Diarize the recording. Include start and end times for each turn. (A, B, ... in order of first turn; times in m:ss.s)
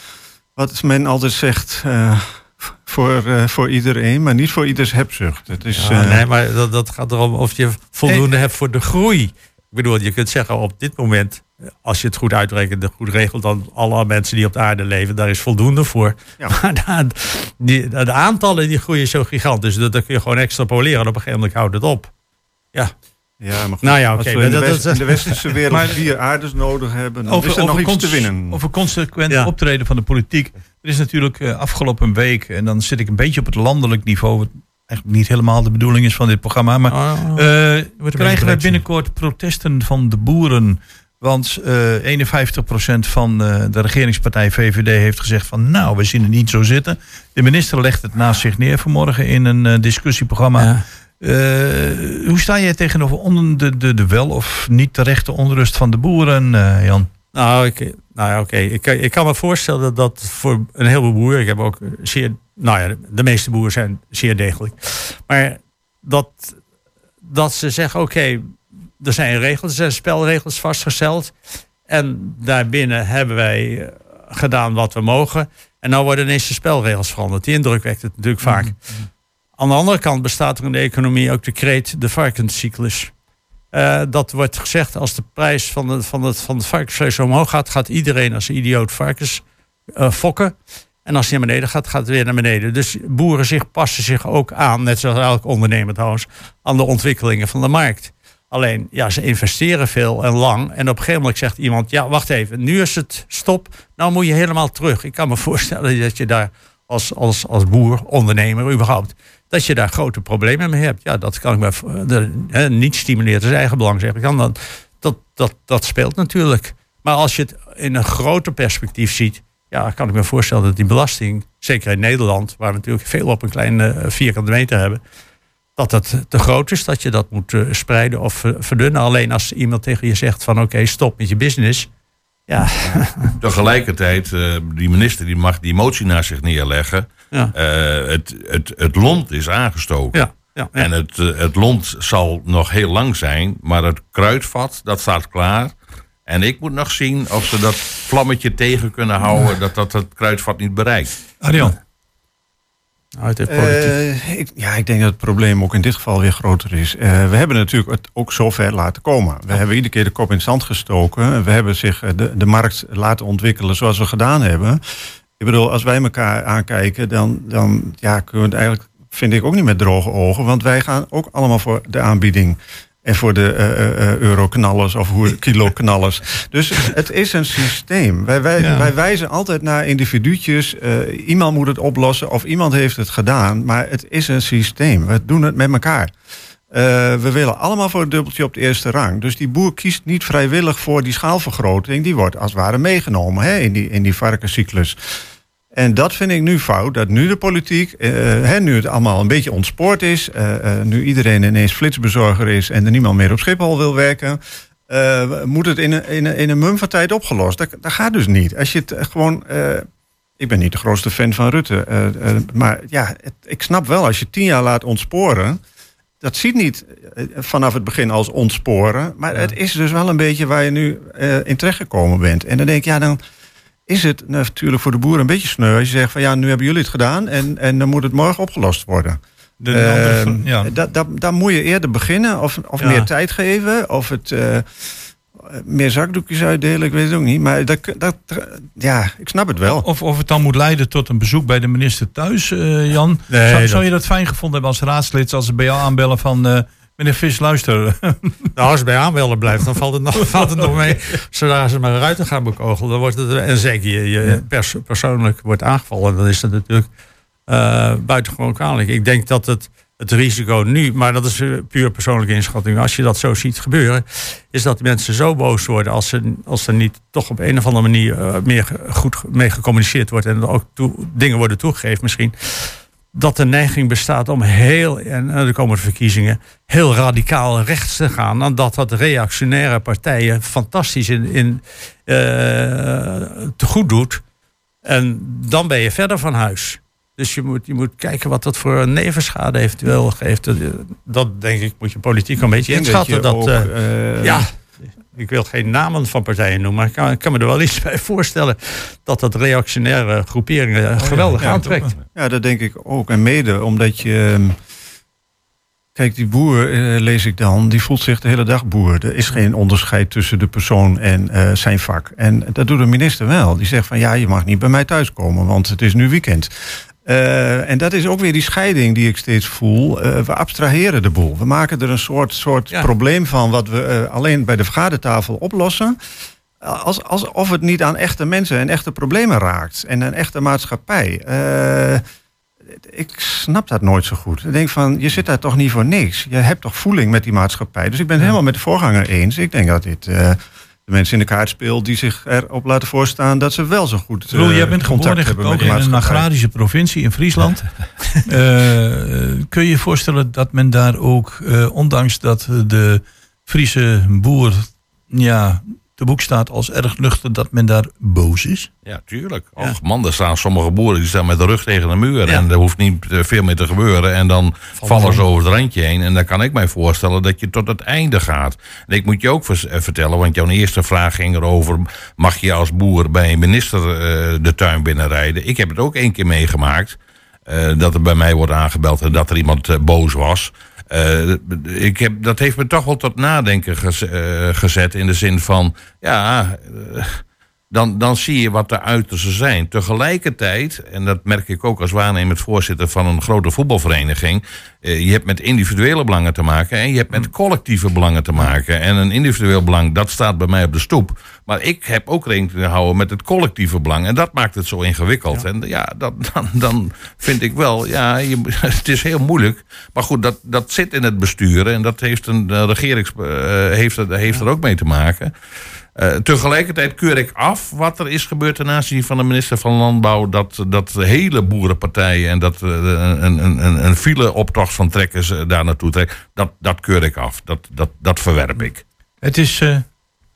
0:00.6-0:06.2 A
0:05.7-0:22.1 B
0:23.4-0:28.6 A
0:23.8-0:25.8 B
0:27.2-0:57.1 C
0:36.9-0:38.8 B
0:50.6-0:50.8 B
0:57.3-1:06.6 B
1:07.2-1:11.3 B
1:11.9-1:18.8 B
1:18.4-1:18.7 C
1:19.6-1:23.1 B
1:23.7-1:29.4 B
1:30.0-2:05.0 B
2:05.8-2:11.9 B
2:12.5-2:13.4 B
2:13.4-2:20.2 D
2:20.1-2:20.9 B
2:20.8-2:25.7 D
2:26.2-2:31.1 D
2:31.4-2:31.8 C
2:33.2-2:33.9 B
2:33.5-2:44.8 A
2:45.4-3:06.1 A
2:58.6-2:58.9 B
3:06.7-3:15.0 A
3:15.7-3:29.8 A
3:30.4-3:35.6 A
3:36.2-3:43.2 A
3:43.9-3:54.6 A
3:49.6-3:50.7 C
3:52.8-3:53.1 B
3:55.4-3:59.8 A
3:59.6-4:08.5 C
4:03.3-4:03.8 B
4:08.6-4:16.9 B
4:17.5-4:44.2 B
4:44.8-4:53.7 B
4:52.7-4:54.4 A
4:55.1-5:01.9 B
5:01.0-5:01.9 C
5:02.1-5:04.6 A
5:06.0-5:16.5 A
5:17.0-5:26.0 A
5:26.6-5:32.0 A
5:32.7-5:46.3 A
5:44.3-5:58.7 C
5:58.8-6:55.3 D
6:04.8-6:05.2 B
6:56.0-7:08.8 D
7:09.2-7:09.8 C